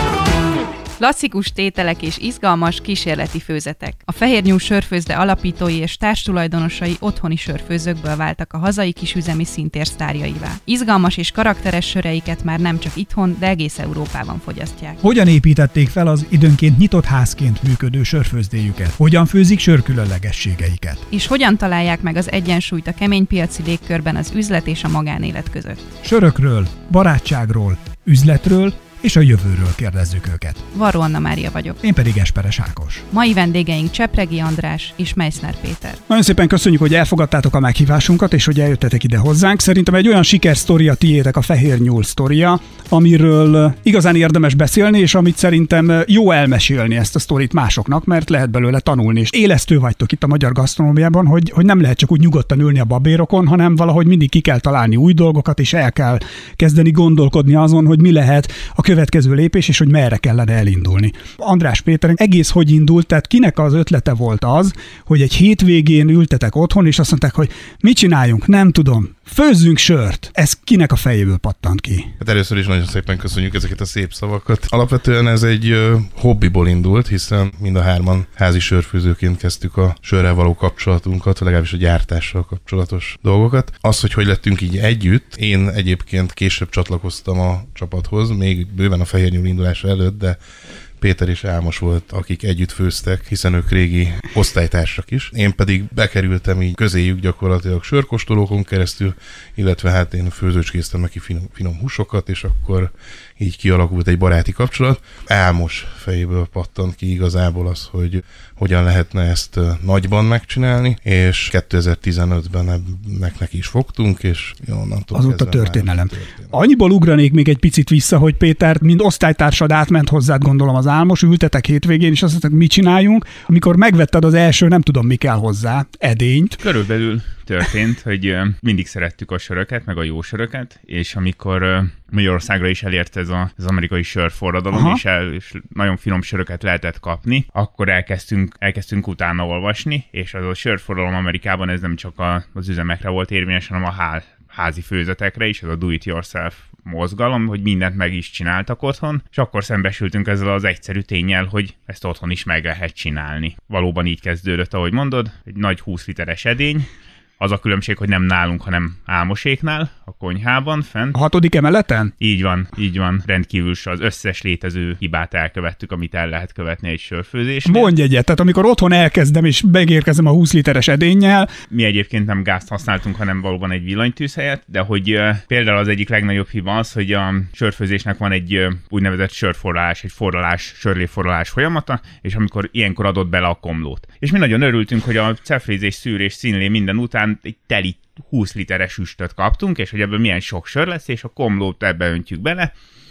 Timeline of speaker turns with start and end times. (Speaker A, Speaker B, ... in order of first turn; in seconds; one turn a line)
Speaker A: 1.0-15.0
Speaker B: 15.0-21.1
Speaker A: 21.1-25.9
Speaker B: 26.0-30.6
Speaker A: 30.7-31.8
Speaker B: 31.8-33.1
Speaker A: 33.1-36.0
Speaker B: 36.1-72.1
Speaker C: 72.2-90.4
Speaker C: 91.0-116.5
Speaker B: 115.1-126.6
Speaker D: 126.6-156.9
Speaker B: 134.7-135.0
Speaker D: 157.4-161.2
Speaker B: 161.1-162.1
Speaker D: 162.2-167.9
Speaker B: 167.7-171.5
Speaker D: 171.7-192.7